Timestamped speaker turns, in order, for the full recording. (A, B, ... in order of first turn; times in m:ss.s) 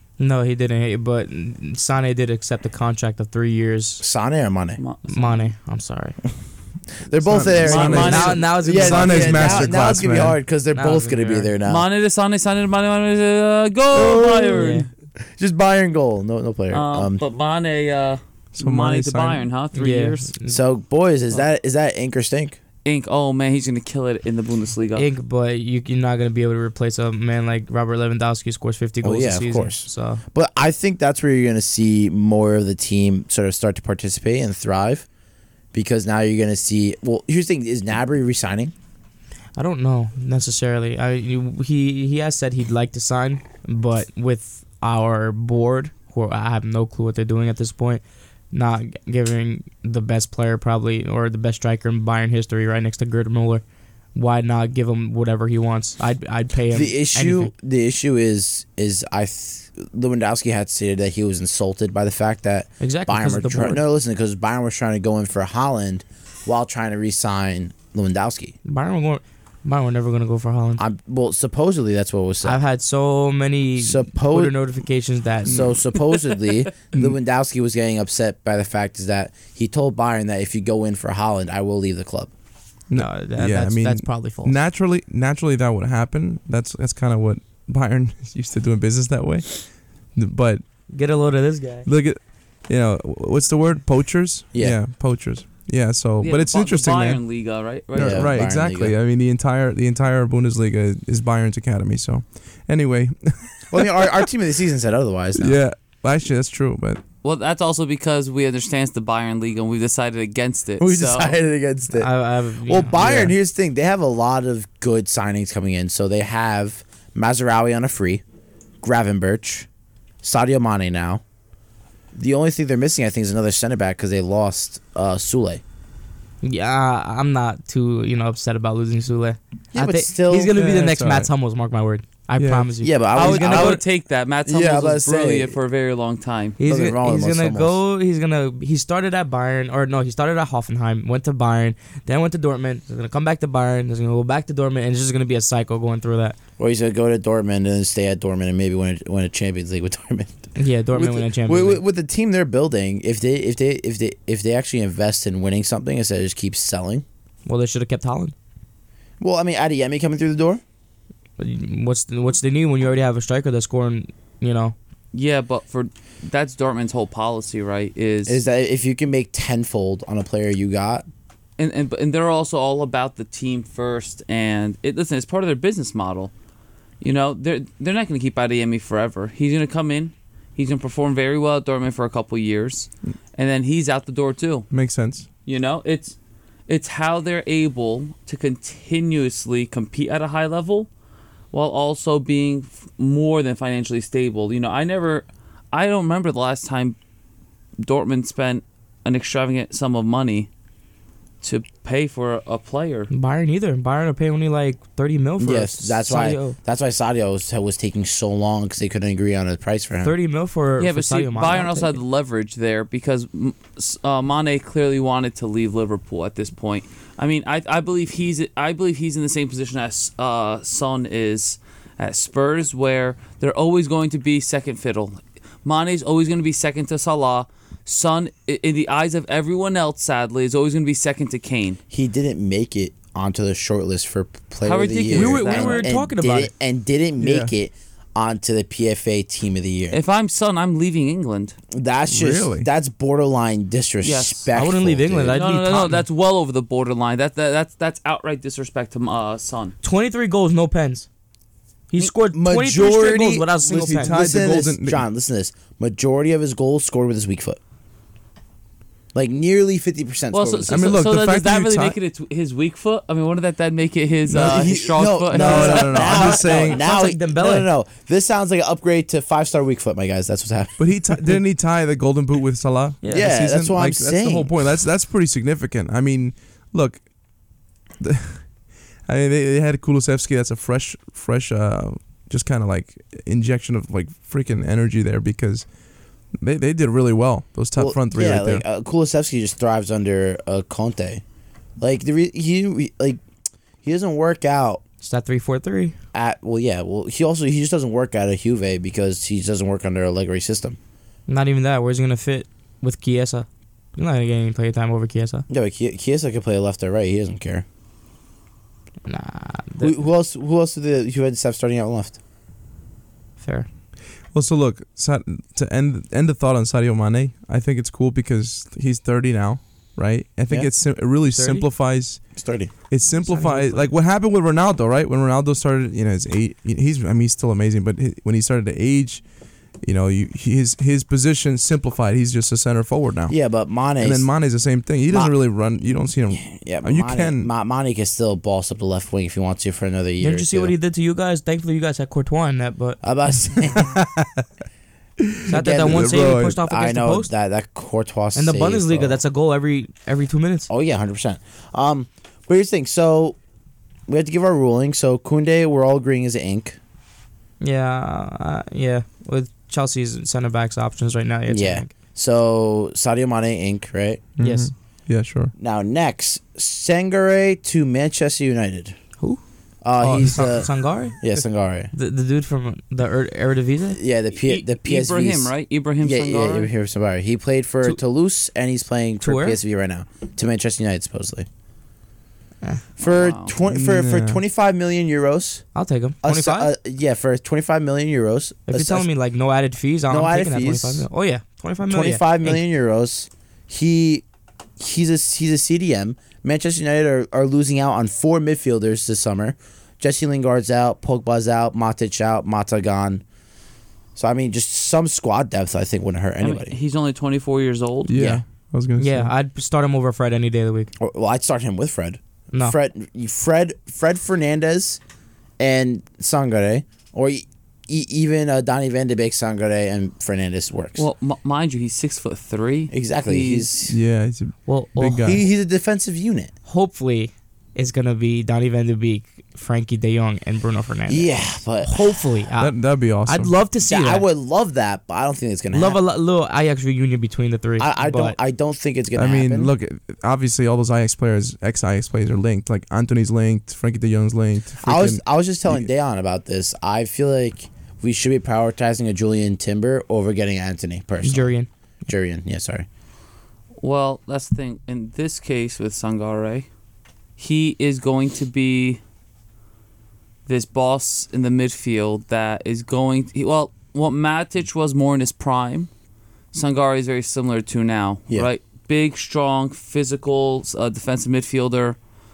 0:00.2-0:04.0 A
0:04.0-0:04.8 B
0:04.8-0:05.5 C
0:05.1-0:06.2 A
0:07.0-0:11.8 B
0:07.2-0:10.4 D
0:07.6-0:08.5 C
0:07.8-0:10.2 A
0:10.7-0:11.5 A
0:11.6-0:14.9 C
0:13.9-0:14.7 B
0:14.5-0:14.9 A
0:15.4-0:17.2 B
0:16.7-0:20.3 C
0:18.6-0:19.4 D
0:19.7-0:20.6 A
0:20.5-0:22.6 B
0:22.8-0:25.1 C
0:25.0-0:30.2 A
0:29.0-0:35.1 B
0:35.7-0:38.7 B
0:39.6-0:53.6 A
0:54.2-0:57.5 A
0:56.7-1:08.6 B
1:02.8-1:03.8 A
1:08.6-1:10.8 A
1:10.8-1:12.6 B
1:12.4-1:15.7 A
1:13.8-1:14.6 B
1:15.5-1:22.3 B
1:22.9-1:30.6 D
1:22.9-1:24.6 A
1:30.9-1:31.9 A
1:31.8-1:37.2 D
1:34.5-1:34.8 B
1:36.2-1:38.4 C
1:37.9-1:44.3 D
1:38.0-1:38.9 B
1:43.7-1:45.6 B
1:45.4-1:47.0 D
1:47.2-1:51.4 C
1:50.8-1:52.1 B
1:51.9-1:53.3 A
1:52.6-1:58.2 B
1:58.8-1:59.7 B
2:00.2-2:01.2 B
2:02.2-2:05.6 B
2:06.4-2:13.8 A
2:09.7-2:10.5 B
2:10.5-2:11.3 D
2:12.4-2:12.7 D
2:12.8-2:13.8 B
2:13.1-2:16.6 C
2:14.5-2:15.6 B
2:16.6-2:26.4 A
2:16.6-2:17.8 B
2:26.6-2:37.0 B
2:30.6-2:31.8 A
2:37.5-2:38.3 A
2:39.2-2:40.6 B
2:41.4-2:44.8 A
2:45.1-2:48.4 C
2:48.3-2:51.1 B
2:51.6-2:56.3 C
2:57.0-3:04.7 C
3:04.7-3:05.3 D
3:05.5-3:06.2 C
3:06.7-3:10.9 C
3:11.5-3:17.0 C
3:17.8-3:20.5 C
3:21.4-3:23.1 C
3:23.1-3:26.6 A
3:25.4-3:30.1 B
3:30.0-3:32.0 A
3:30.8-3:51.8 C
3:51.9-4:00.0 B
3:54.6-3:55.9 C
3:55.1-3:56.5 A
3:57.2-3:57.5 D
3:59.9-4:01.6 C
4:01.7-4:05.4 B
4:02.1-4:02.7 D
4:04.0-4:04.5 C
4:04.5-4:06.0 A
4:05.3-4:09.8 C
4:09.8-4:11.1 A
4:11.9-4:14.2 A
4:12.3-4:17.6 B
4:13.7-4:15.1 D
4:19.1-4:20.9 B
4:20.3-4:26.7 C
4:20.7-4:22.0 D
4:24.3-4:24.7 D
4:24.4-4:30.8 B
4:25.3-4:26.8 D
4:25.9-4:27.7 A
4:30.8-4:37.0 D
4:33.0-4:33.3 A
4:33.1-4:34.5 B
4:38.0-4:38.5 D
4:39.1-4:45.7 D
4:46.4-4:48.6 D
4:47.8-4:51.2 B
4:51.8-4:53.2 B
4:53.8-4:54.8 B
4:55.0-4:56.0 A
4:56.1-5:00.8 B
5:01.3-5:05.5 A
5:05.5-5:07.6 B
5:09.1-5:10.0 A
5:09.8-5:12.2 B
5:13.4-5:13.7 A
5:14.3-5:29.2 D
5:21.2-5:21.7 A
5:22.4-5:22.7 B
5:23.2-5:23.9 A
5:29.8-5:33.3 D
5:33.3-5:34.3 B
5:34.0-5:37.5 D
5:36.4-5:40.7 B
5:40.2-5:43.0 A
5:43.0-5:44.0 B
5:43.8-5:44.4 D
5:45.2-5:46.6 D
5:45.5-5:47.3 A
5:45.5-5:49.2 B
5:48.4-5:50.7 A
5:50.7-5:53.4 B
5:54.1-5:56.8 B
5:57.6-6:01.9 A
6:01.5-6:04.2 B
6:04.4-6:05.5 D
6:04.4-6:04.7 A
6:05.6-6:09.0 B
6:09.8-6:11.9 B
6:10.0-6:11.2 A
6:11.9-6:14.0 A
6:13.9-6:21.5 B
6:14.3-6:16.7 C
6:19.2-6:19.6 A
6:23.0-6:25.6 B
6:23.0-6:23.5 C
6:23.7-6:24.4 D
6:25.7-6:26.7 A
6:26.2-6:29.1 B
6:28.7-6:32.6 A
6:30.1-6:31.1 B
6:31.8-6:34.2 B
6:34.8-6:43.2 B
6:44.2-6:46.8 B
6:46.4-6:48.2 C
6:48.0-6:49.3 D
6:48.2-6:48.4 B
6:49.0-6:50.9 A
6:51.0-6:55.0 B
6:55.6-7:01.0 B
7:01.0-7:03.7 C
7:02.9-7:04.0 B
7:03.9-7:05.4 D
7:04.7-7:05.4 A
7:05.2-7:06.5 B
7:06.7-7:11.3 A
7:11.1-7:12.2 B
7:11.8-7:12.7 A
7:12.6-7:13.5 D
7:13.3-7:14.2 A
7:13.8-7:16.0 B
7:15.7-7:18.4 A
7:17.8-7:19.7 B
7:19.2-7:25.9 D
7:24.8-7:31.5 B
7:31.2-7:31.7 A
7:32.1-7:32.9 B
7:33.8-7:36.7 C
7:37.4-7:39.0 C
7:40.5-7:45.9 C
7:46.5-7:52.0 C